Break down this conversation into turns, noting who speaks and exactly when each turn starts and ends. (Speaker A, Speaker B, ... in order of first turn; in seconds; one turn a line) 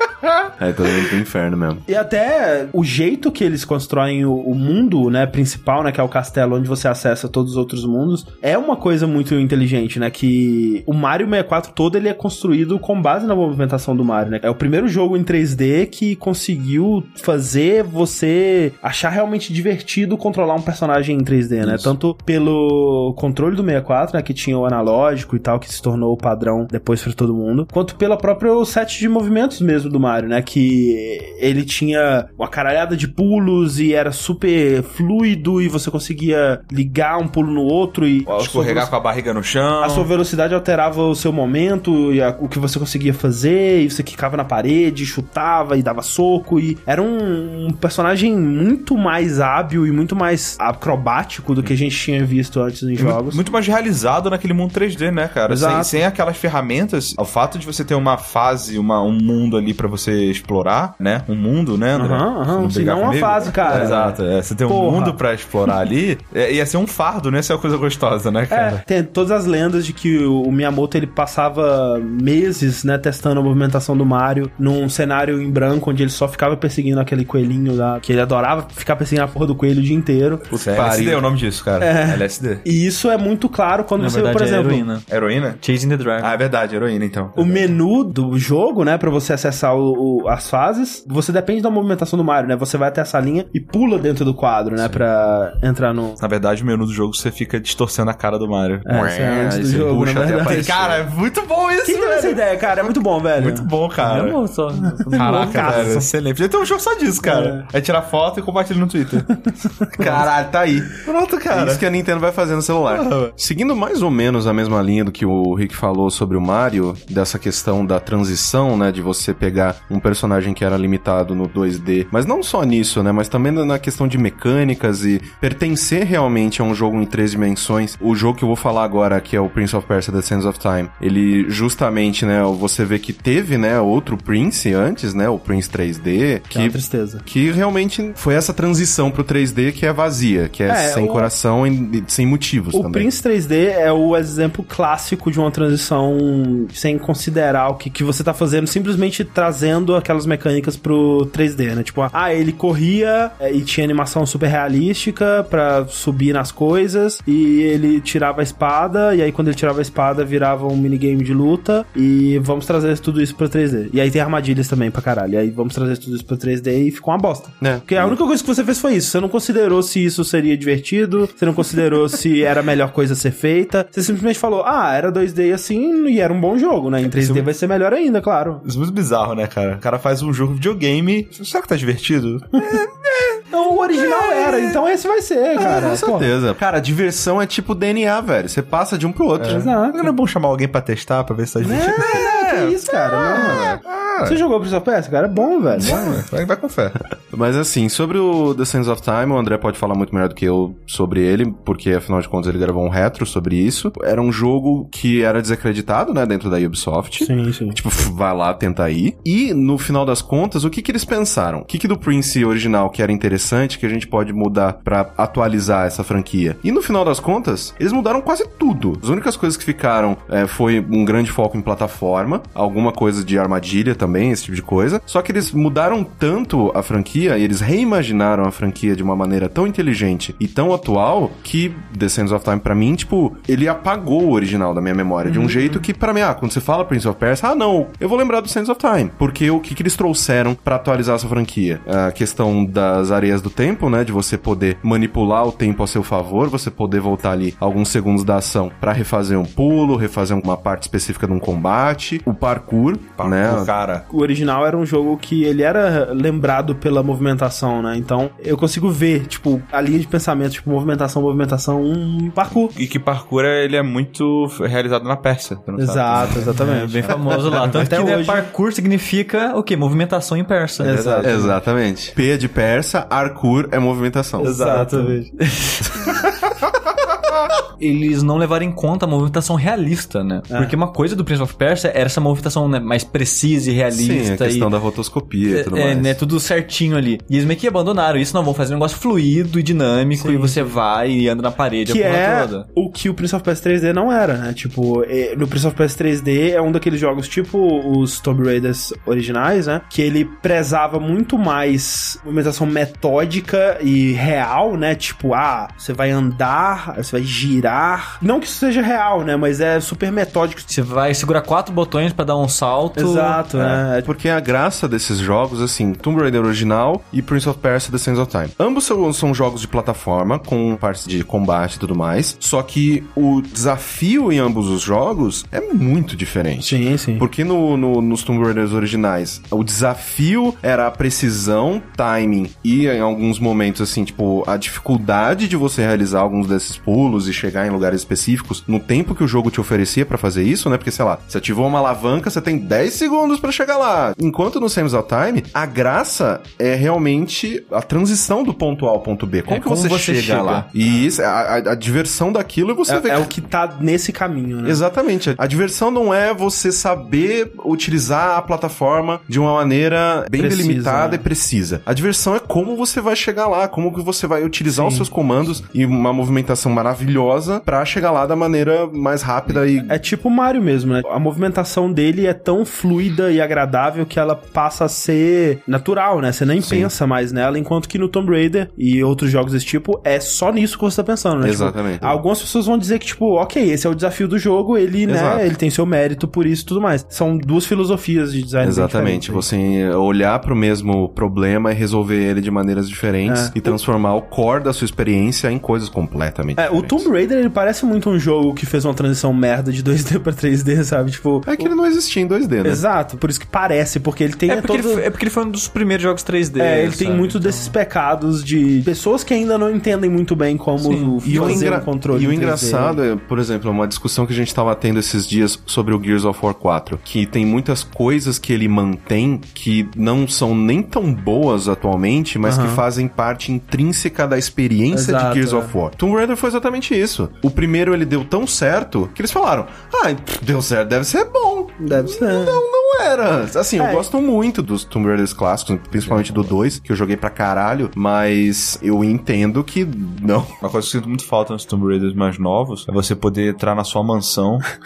Speaker A: 0.6-1.8
Speaker B: 1.9-38.9
Speaker C: 38.3-40.1
Speaker B: 39.8-53.4
Speaker C: 53.0-68.8
Speaker B: 55.5-56.0
Speaker B: 61.9-65.2
Speaker B: 68.5-80.5
Speaker C: 80.5-82.6
Speaker A: 80.5-81.2
Speaker B: 81.8-84.9
Speaker D: 84.0-85.1
Speaker C: 85.1-85.6
Speaker D: 85.6-86.4
Speaker C: 86.2-87.8
Speaker B: 87.3-96.2
Speaker C: 96.2-99.0
Speaker B: 98.8-100.8
Speaker A: 98.9-101.1
Speaker C: 100.4-104.4
Speaker B: 101.8-103.7
Speaker D: 104.0-106.0
Speaker B: 104.8-106.1
Speaker C: 105.1-111.8
Speaker B: 107.2-107.7
Speaker A: 110.0-110.9
Speaker A: 111.5-143.1
Speaker C: 112.9-113.3
Speaker B: 136.5-137.2
Speaker B: 140.7-141.3
Speaker B: 142.7-178.6
Speaker A: 167.6-168.2
Speaker C: 177.1-177.5
Speaker C: 178.6-183.4
Speaker B: 183.5-186.3
Speaker C: 184.0-184.8
Speaker A: 185.6-189.7
Speaker C: 189.4-194.4
Speaker B: 189.4-190.1
Speaker B: 191.6-196.0
Speaker A: 195.8-196.2
Speaker C: 195.8-197.0
Speaker A: 197.3-253.7
Speaker B: 207.2-207.8
Speaker B: 235.2-235.8
Speaker C: 253.2-254.0
Speaker B: 254.1-262.7
Speaker C: 262.7-266.5
Speaker B: 265.8-267.1
Speaker D: 266.5-271.1
Speaker B: 267.7-268.5
Speaker B: 270.8-271.6
Speaker C: 271.0-271.4
Speaker A: 271.2-274.6
Speaker B: 274.4-275.2
Speaker D: 274.4-275.9
Speaker C: 274.7-275.0
Speaker A: 275.9-276.2
Speaker D: 277.8-284.7
Speaker B: 280.5-280.8
Speaker A: 283.9-286.2
Speaker D: 285.5-292.6
Speaker B: 290.1-290.8
Speaker B: 291.9-310.7
Speaker D: 310.7-313.4
Speaker B: 313.0-314.1
Speaker A: 313.5-353.3
Speaker B: 326.6-327.2
Speaker D: 349.5-350.7
Speaker B: 352.9-354.8
Speaker A: 354.6-370.0
Speaker B: 360.3-361.2
Speaker B: 364.7-365.1
Speaker B: 369.8-389.4
Speaker A: 376.6-376.9
Speaker A: 381.4-382.2
Speaker A: 385.1-385.5
Speaker A: 388.6-397.1
Speaker B: 393.2-393.8
Speaker B: 396.6-401.7
Speaker A: 401.5-402.8
Speaker B: 402.6-405.1
Speaker D: 404.5-407.8
Speaker B: 406.6-413.0
Speaker D: 410.8-411.8
Speaker A: 411.2-440.5
Speaker B: 422.4-422.8
Speaker B: 424.9-425.8
Speaker B: 431.8-432.6
Speaker B: 433.8-434.1
Speaker C: 436.0-436.4
Speaker C: 440.6-444.6